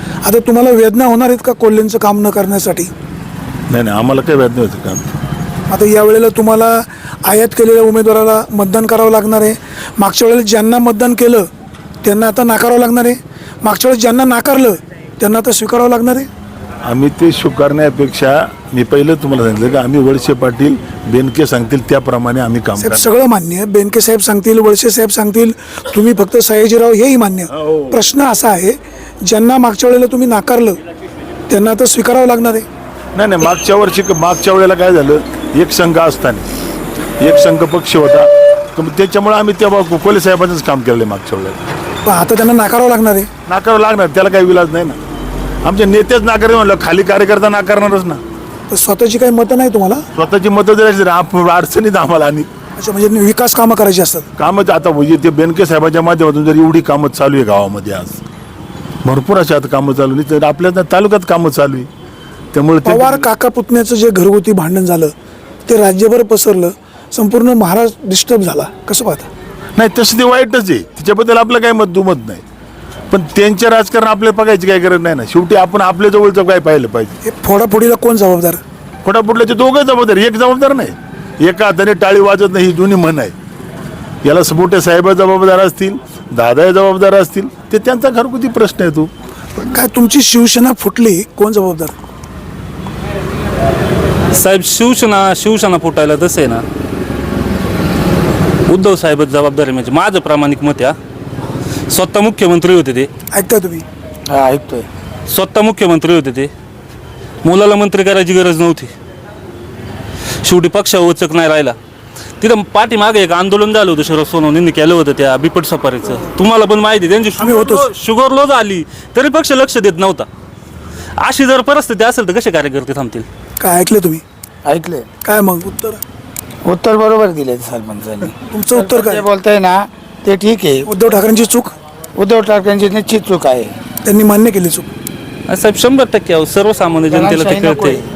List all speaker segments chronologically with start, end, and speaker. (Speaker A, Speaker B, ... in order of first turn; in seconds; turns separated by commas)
Speaker A: 0.2-2.9, Speaker B: 3.7-5.1, Speaker A: 5.7-11.5, Speaker A: 12.0-16.3, Speaker B: 16.8-23.0, Speaker A: 22.8-30.8, Speaker A: 31.5-32.6, Speaker B: 33.1-36.5, Speaker B: 37.2-41.6, Speaker A: 42.0-43.3, Speaker B: 43.5-45.0, Speaker B: 45.6-48.2, Speaker A: 48.7-50.0, Speaker B: 50.1-52.5, Speaker A: 52.8-54.3, Speaker B: 54.4-58.2, Speaker B: 59.0-61.9, Speaker B: 62.5-63.3, Speaker A: 62.8-65.1, Speaker A: 65.7-69.3, Speaker B: 69.8-72.4, Speaker B: 73.1-77.2, Speaker A: 77.2-78.6, Speaker B: 79.0-83.3, Speaker B: 84.2-89.1, Speaker A: 89.6-91.9, Speaker C: 94.3-96.6, Speaker C: 98.7-100.9, Speaker C: 101.9-103.1, Speaker A: 103.3-103.8, Speaker D: 104.3-104.9, Speaker C: 105.3-106.5, Speaker C: 107.4-108.9, Speaker C: 110.4-111.8, Speaker C: 112.4-120.3, Speaker A: 117.4-117.9, Speaker C: 121.2-123.2, Speaker A: 123.6-124.2, Speaker D: 124.7-125.1, Speaker A: 125.2-126.0, Speaker D: 126.7-130.9, Speaker A: 128.4-129.2, Speaker A: 130.9-131.7, Speaker D: 132.2-133.7, Speaker A: 134.0-134.9, Speaker C: 135.5-138.0, Speaker D: 137.1-138.0